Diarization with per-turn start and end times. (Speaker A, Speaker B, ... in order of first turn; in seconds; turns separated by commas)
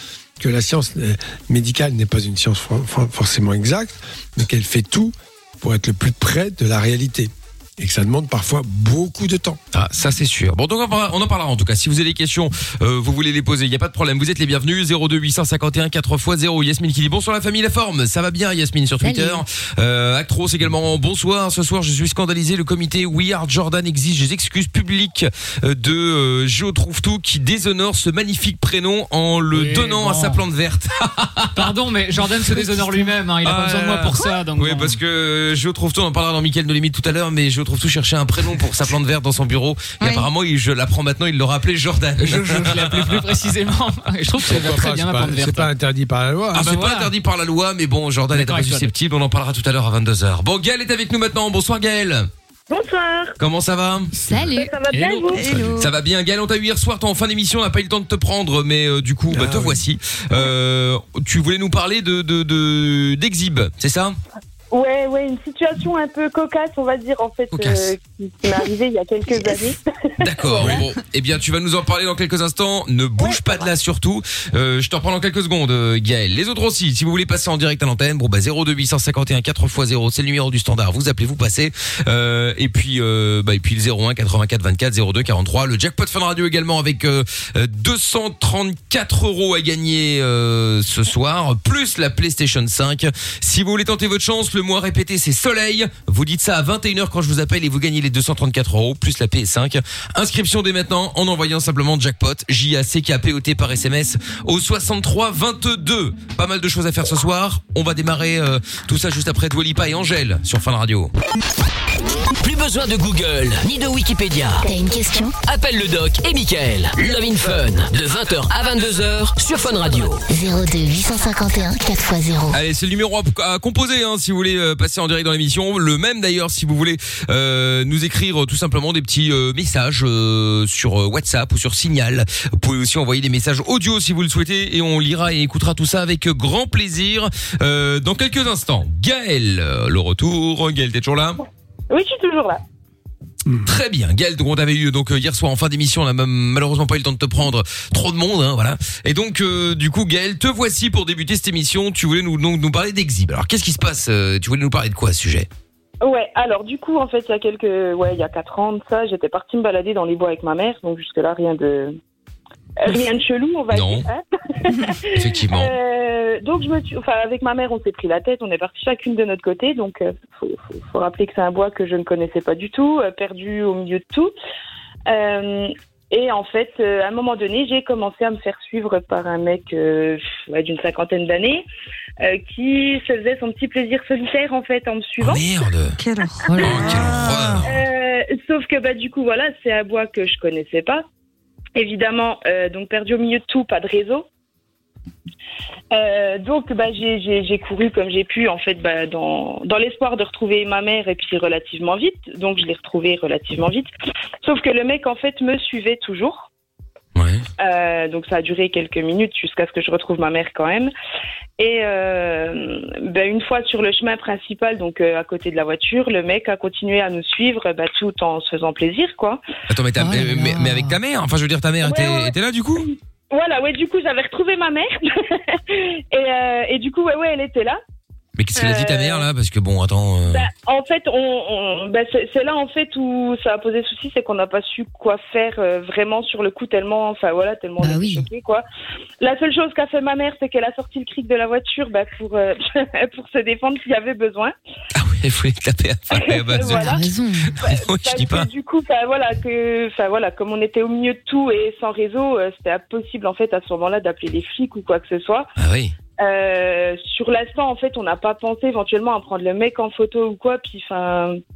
Speaker A: 0.4-9.6, Speaker B: 9.7-31.7, Speaker C: 19.0-19.4, Speaker D: 29.5-30.4, Speaker D: 31.6-35.0, Speaker B: 33.4-43.2, Speaker E: 40.0-40.3, Speaker D: 42.2-45.7, Speaker A: 44.4-46.7, Speaker D: 46.5-47.1, Speaker B: 46.5-52.3, Speaker D: 48.3-48.9, Speaker F: 52.7-53.4, Speaker B: 53.4-54.1, Speaker C: 54.3-54.7, Speaker F: 54.5-55.4, Speaker D: 54.9-55.5, Speaker E: 55.3-55.9, Speaker A: 55.4-55.9, Speaker B: 55.8-64.2, Speaker A: 59.3-59.9, Speaker F: 64.7-70.8, Speaker B: 67.5-67.9, Speaker B: 70.2-111.1, Speaker G: 112.4-114.7, Speaker H: 114.6-115.3, Speaker G: 115.4-120.3, Speaker H: 120.3-122.6, Speaker B: 122.5-141.4, Speaker F: 141.9-142.6, Speaker B: 143.7-155.5, Speaker F: 156.0-162.0, Speaker F: 162.8-174.3, Speaker B: 163.7-164.1, Speaker B: 165.2-165.7, Speaker F: 175.1-181.7, Speaker F: 182.2-185.4, Speaker B: 185.2-186.0, Speaker E: 186.0-187.6, Speaker C: 186.4-187.0, Speaker B: 186.6-187.8, Speaker F: 187.7-191.0, Speaker F: 191.8-194.3, Speaker F: 195.9-203.9, Speaker F: 204.4-206.5, Speaker B: 207.2-207.4, Speaker F: 207.6-210.9, Speaker F: 211.6-219.4, Speaker B: 219.7-222.9, Speaker C: 220.0-221.0, Speaker F: 221.8-227.8, Speaker B: 228.4-230.5, Speaker F: 228.6-229.3, Speaker F: 230.3-238.6, Speaker C: 237.8-238.3, Speaker F: 239.2-244.5, Speaker B: 244.9-247.0, Speaker F: 246.1-247.0, Speaker C: 246.6-247.6, Speaker F: 247.6-255.5, Speaker B: 247.6-248.5, Speaker B: 255.6-255.9, Speaker F: 256.2-261.4